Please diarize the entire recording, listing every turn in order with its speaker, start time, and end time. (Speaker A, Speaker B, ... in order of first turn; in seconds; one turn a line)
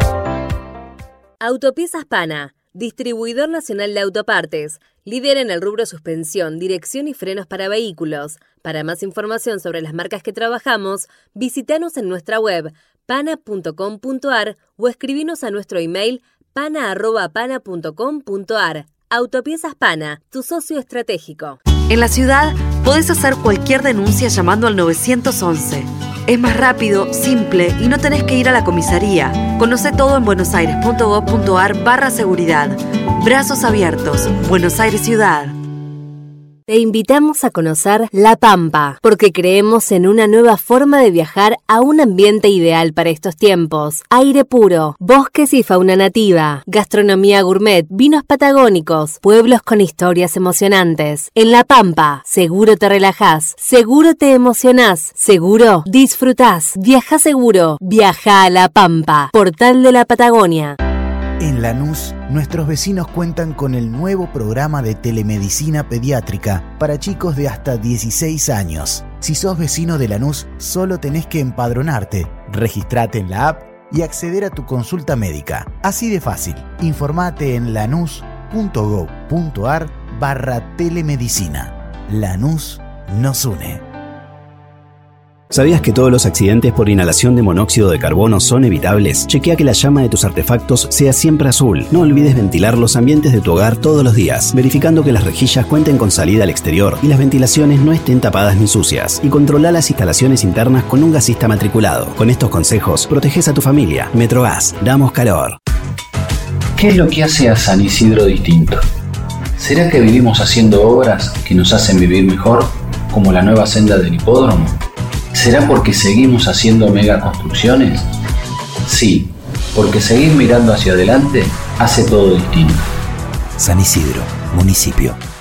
Speaker A: 1.4-21.6
Speaker B: 21.9-35.5
Speaker A: 36.7-60.8
Speaker C: 61.4-83.8
Speaker D: 85.5-105.6
Speaker E: 106.8-108.8
Speaker E: 109.6-114.7
Speaker E: 115.3-118.0
Speaker E: 118.8-122.8
Speaker C: 123.6-125.2